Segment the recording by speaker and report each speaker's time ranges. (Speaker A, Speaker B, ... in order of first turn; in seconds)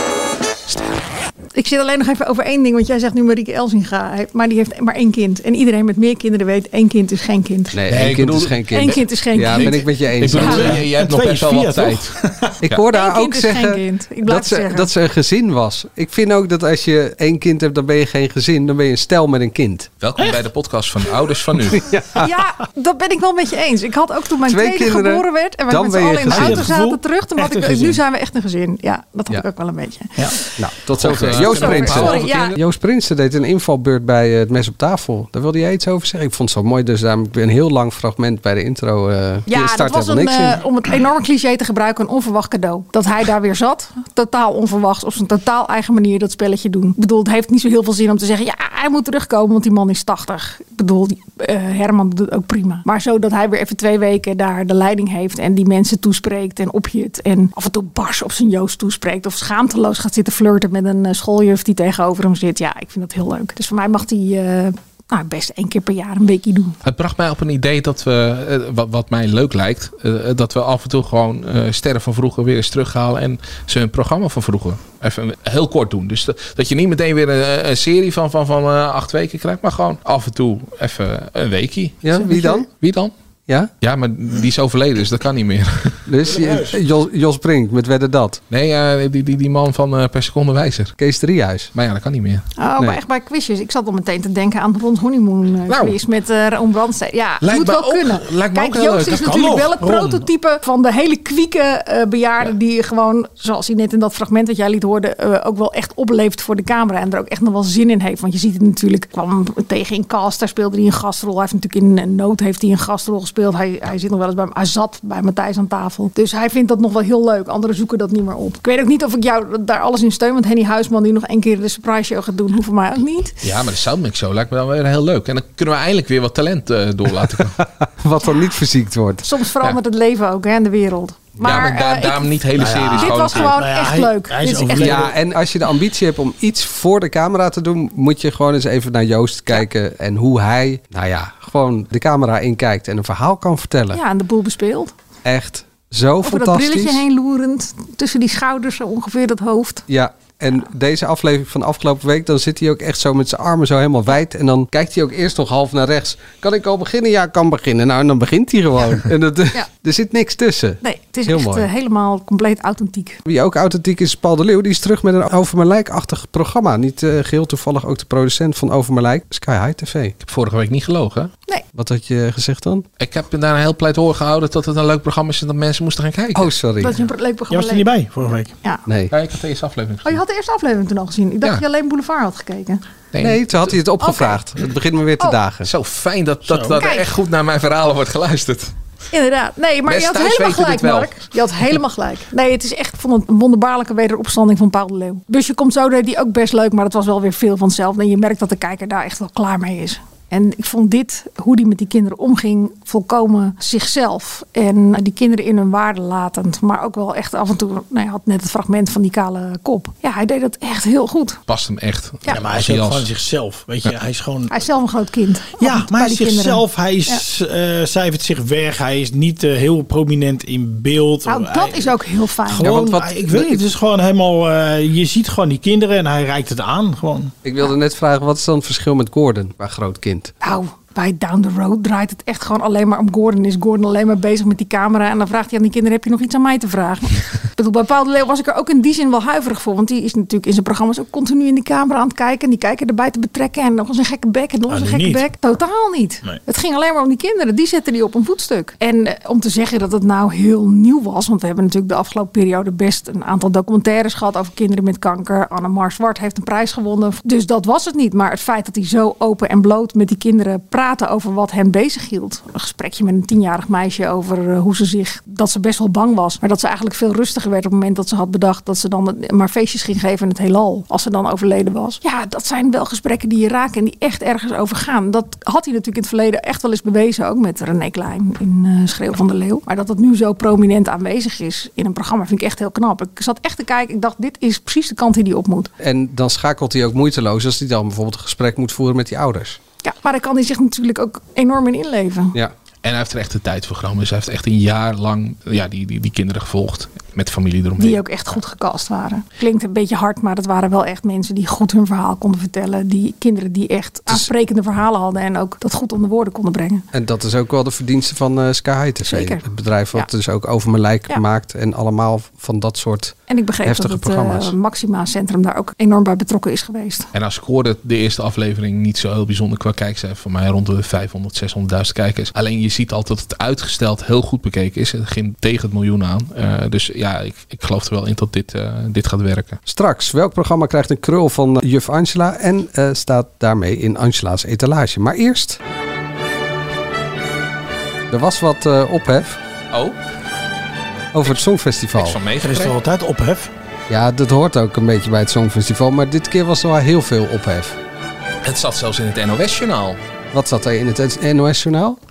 Speaker A: 1.5-7.8, 8.7-10.6, 12.9-14.9, 22.1-30.5, 31.4-32.5, 39.5-66.8, 92.6-123.3, 129.2-132.4, 132.9-135.0, 143.9-144.9, 146.2-149.8, 160.8-163.2, 176.8-177.8, 180.0-182.8, 184.0-184.4, 186.7-187.0, 189.1-211.4, 214.5-217.2, 221.2-223.6, 230.4-285.7, 289.8-292.4, 297.8-306.8, 309.0-310.1, 313.3-317.1
Speaker B: 7.7-10.8, 12.6-19.9, 21.7-22.3, 24.4-26.7, 30.6-40.6, 82.0-82.7, 86.1-88.4, 91.0-91.7, 127.8-129.2, 134.8-144.0, 145.2-147.0, 149.9-161.7, 163.2-170.2, 171.7-172.8, 176.3-176.9, 178.8-179.1, 183.2-185.7, 227.4-230.3, 285.8-289.6, 306.9-314.5, 329.6-335.6, 338.1-339.4, 341.1-342.2, 343.9-347.8, 350.3-352.0
Speaker C: 7.9-12.8, 20.0-21.9, 31.0-32.5, 66.8-83.1, 83.8-86.0, 88.5-90.9, 91.7-92.5, 95.7-96.0, 97.4-99.2, 123.4-127.6, 131.4-133.6, 170.2-171.3, 173.0-176.5, 179.1-180.2, 183.1-183.8, 185.6-188.7, 189.9-191.2, 211.5-213.1, 292.8-298.0, 317.1-329.6, 342.0-342.7, 348.4-350.0
Speaker D: 10.3-12.6, 26.3-28.0, 86.2-86.8, 99.0-100.2, 132.6-135.2, 177.5-178.5, 186.4-186.8, 212.3-214.6, 215.6-227.3, 244.7-245.3, 342.4-343.5